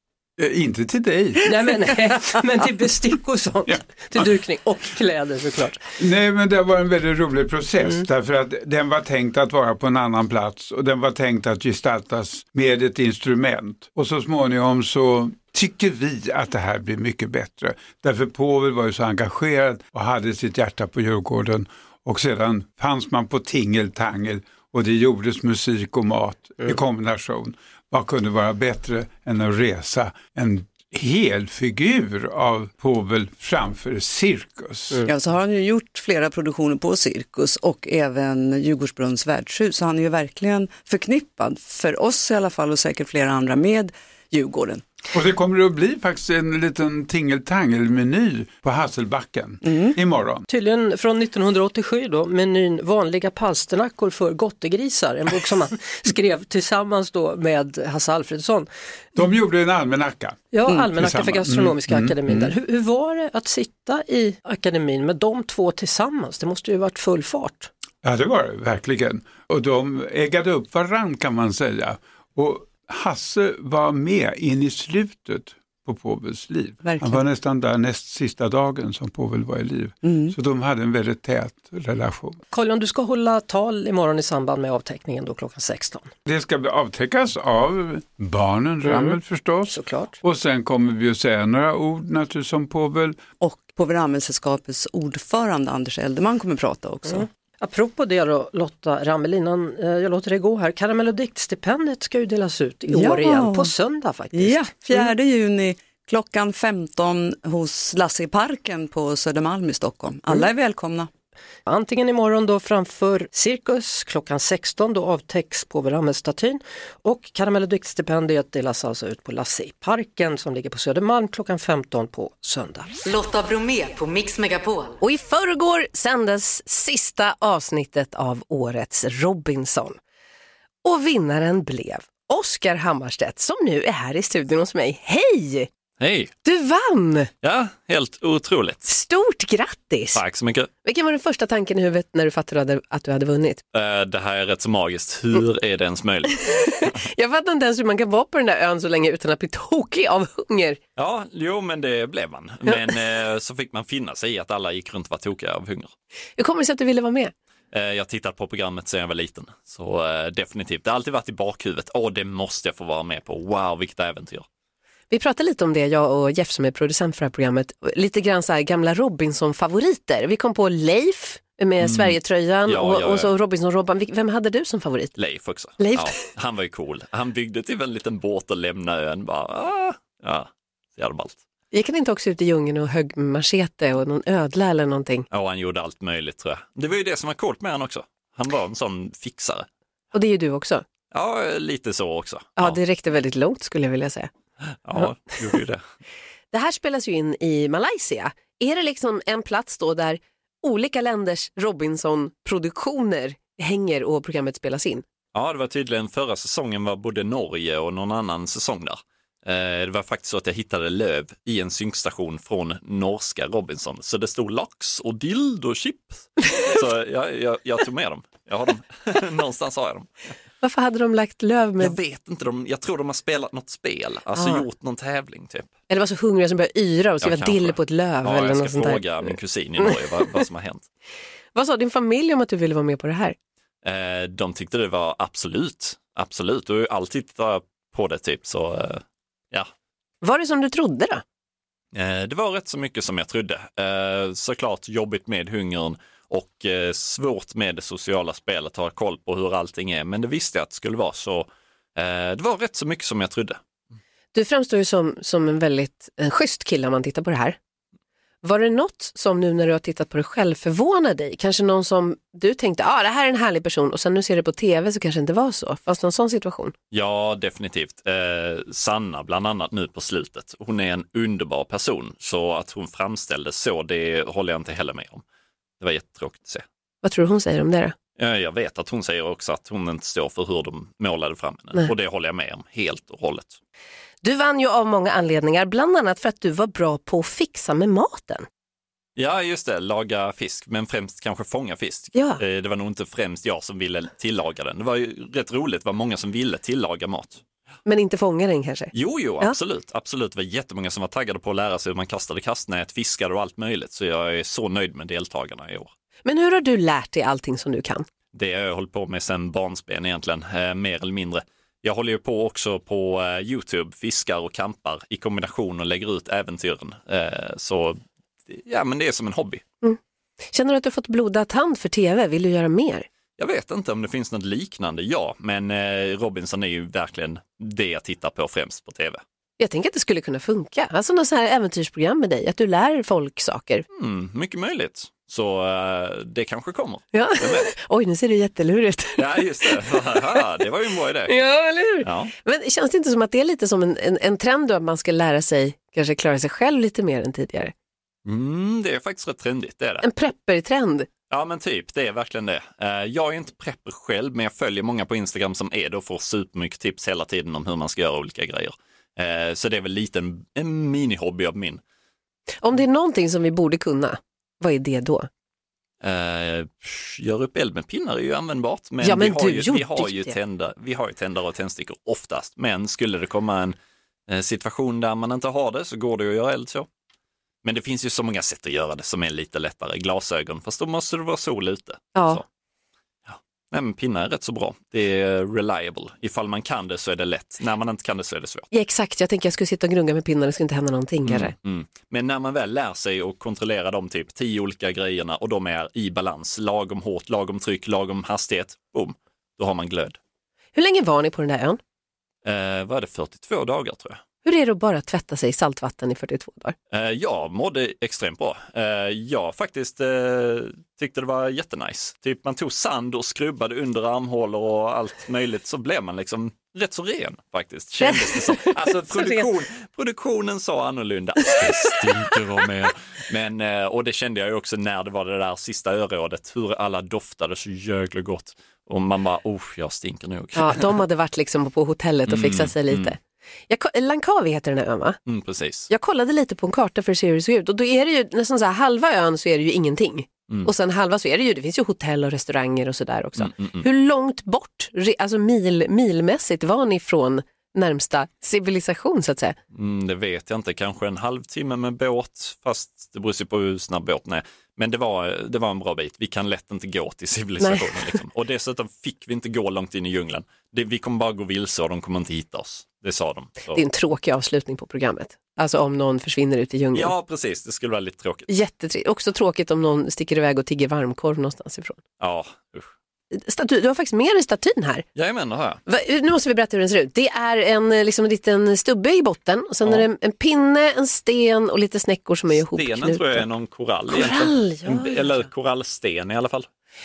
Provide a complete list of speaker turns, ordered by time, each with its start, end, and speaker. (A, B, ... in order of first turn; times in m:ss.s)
0:00.4-0:01.5 A
0:01.4-0:05.9 B
0:06.0-0:35.0 A
0:35.0-0:44.9 C
0:45.1-0:50.4 A
0:49.6-0:50.0 C
0:50.5-0:58.7 B
0:59.2-1:02.5 A
1:00.5-1:07.7 B
1:08.0-1:22.4 A
1:16.8-1:17.2 C
1:20.0-1:20.3 C
1:22.5-1:26.1 B
1:26.2-1:33.2 A
1:28.9-1:30.2 B
1:33.4-1:37.3 C
1:37.1-1:45.1 B
1:42.9-1:43.7 C
1:44.3-1:51.1 C
1:51.6-2:02.9 B
2:03.0-2:05.0 D
2:05.0-2:10.0 E
2:10.8-2:15.7 E
2:16.0-2:16.3 F
2:16.4-2:17.3 E
2:17.4-2:18.9 F
2:18.9-2:20.2 E
2:20.1-2:20.7 F
2:20.8-2:23.6 E
2:23.7-2:26.9 F
2:26.6-2:30.8 E
2:31.0-2:35.9 F
2:36.4-2:37.3 E
2:37.7-2:44.4 F
2:45.1-2:55.1 E
2:51.8-2:53.3 F
2:55.2-3:01.4 F
2:55.8-2:56.2 E
3:01.7-3:05.3 E
3:05.3-3:09.7 F
3:10.1-3:10.8 E
3:11.1-3:12.8 F
3:12.6-3:14.3 E
3:14.8-3:15.8 F
3:16.5-3:25.0 E
3:25.3-3:40.1 F
3:40.6-3:42.0 E
3:41.8-3:45.7 F
3:44.4-3:44.6 E
3:45.9-3:50.4 E
3:47.2-3:50.8 F
3:51.5-3:53.3 E
3:53.8-3:59.7 F
4:00.2-4:01.2 E
4:01.9-4:13.6 F
4:14.3-4:17.6 E
4:18.4-4:26.7 E
4:26.9-4:35.2 F
4:35.8-4:36.6 F
4:37.0-4:37.9 E
4:38.2-4:43.6 F
4:44.2-4:48.4 E
4:49.2-4:57.4 F
4:52.1-4:52.4 E
4:57.9-4:59.6 E
4:58.9-5:05.9 F
5:06.2-5:08.0 E
5:08.3-5:19.6 F
5:20.5-5:23.1 E
5:23.4-5:29.2 F
5:29.6-5:33.8 E
5:33.9-5:37.7 F
5:37.1-5:40.4 E
5:39.2-5:41.3 F
5:41.3-5:47.7 E
5:42.0-5:42.3 F
5:48.2-5:50.1 F
5:50.0-5:51.1 E
5:51.3-6:01.8 F
6:02.6-6:05.3 E
6:06.0-6:13.8 F
6:09.0-6:10.4 E
6:14.3-6:16.9 F
6:17.6-6:22.4 F
6:22.1-6:22.4 E
6:23.3-6:28.6 F
6:28.7-6:31.5 E
6:31.2-6:40.2 F
6:40.7-6:41.8 E
6:42.4-6:44.2 F
6:44.4-6:46.8 E
6:46.9-7:10.9 F
6:58.0-6:59.5 E
7:10.6-7:13.2 E
7:12.3-7:13.1 F
7:13.7-7:15.2 E
7:15.3-7:15.9 F
7:15.9-7:29.6 E
7:23.4-7:23.8 F
7:29.7-7:43.8 F
7:37.6-7:38.2 E
7:43.7-7:47.1 E
7:46.9-7:48.5 F
7:48.5-7:52.0 E
7:52.2-7:52.9 F
7:53.3-7:55.0 E
7:55.2-7:55.8 F
7:55.9-8:03.4 E
8:02.5-8:06.7 F
8:04.1-8:05.4 E